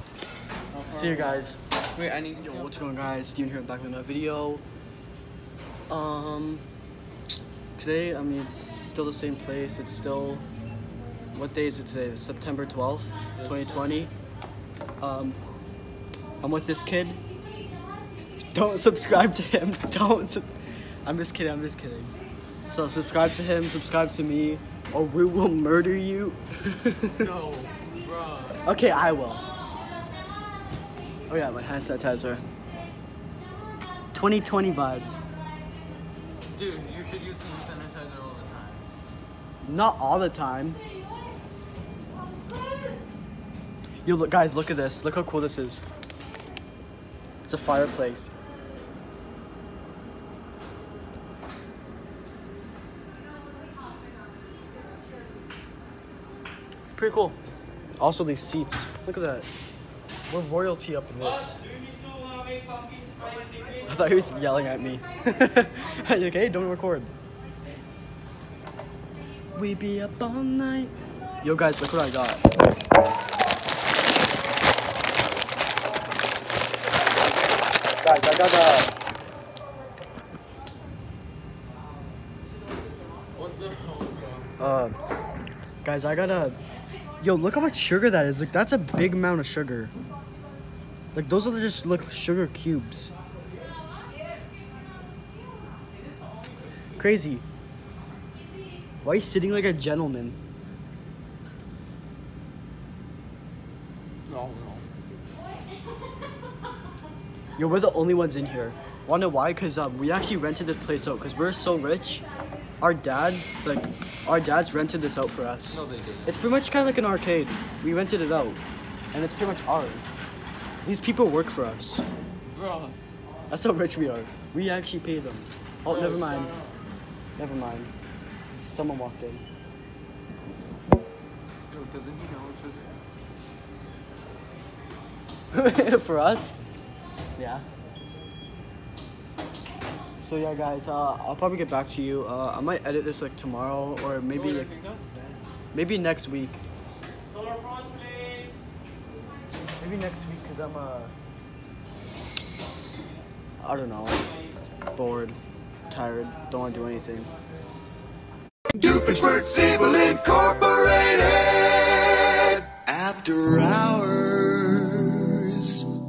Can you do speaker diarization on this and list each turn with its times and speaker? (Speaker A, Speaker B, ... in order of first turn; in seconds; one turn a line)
Speaker A: 0.7-2.8
Speaker B: 0.9-1.6
Speaker B: 2.4-4.6
Speaker B: 5.9-6.7
Speaker B: 7.8-10.5
Speaker B: 11.3-14.1
Speaker A: 13.3-14.1
Speaker B: 15.0-15.4
Speaker B: 16.4-17.2
Speaker B: 18.5-20.5
Speaker B: 21.0-22.1
Speaker B: 22.6-27.3
Speaker A: 27.0-28.6
Speaker B: 28.6-29.5
Speaker B: 31.3-32.4
Speaker B: 34.1-35.2
Speaker A: 36.5-38.9
Speaker B: 39.6-40.8
Speaker B: 44.0-45.8
Speaker B: 47.5-48.3
Speaker B: 57.0-57.4
Speaker B: 58.0-59.5
Speaker B: 60.3-61.6
Speaker B: 63.8-67.1
Speaker B: 69.5-72.5
Speaker B: 78.0-78.9
Speaker A: 83.3-84.5
Speaker B: 84.6-84.9
Speaker B: 85.8-86.6
Speaker B: 87.2-89.9
Speaker B: 91.1-93.1
Speaker B: 97.0-97.4
Speaker B: 99.0-100.4
Speaker A: 104.3-104.9
Speaker B: 107.5-112.2
Speaker B: 112.8-118.6
Speaker A: 115.7-116.3
Speaker B: 119.1-120.2
Speaker B: 120.8-122.0
Speaker A: 122.4-123.0
Speaker B: 123.5-126.6
Speaker A: 125.8-126.8
Speaker B: 127.4-127.9
Speaker B: 128.5-129.4
Speaker A: 131.7-133.0
Speaker B: 135.5-136.6
Speaker B: 137.3-137.6
Speaker B: 140.2-144.7
Speaker A: 144.2-145.4
Speaker B: 145.7-146.6
Speaker B: 149.8-151.1
Speaker B: 153.6-154.3
Speaker B: 154.9-157.3
Speaker C: 158.7-165.9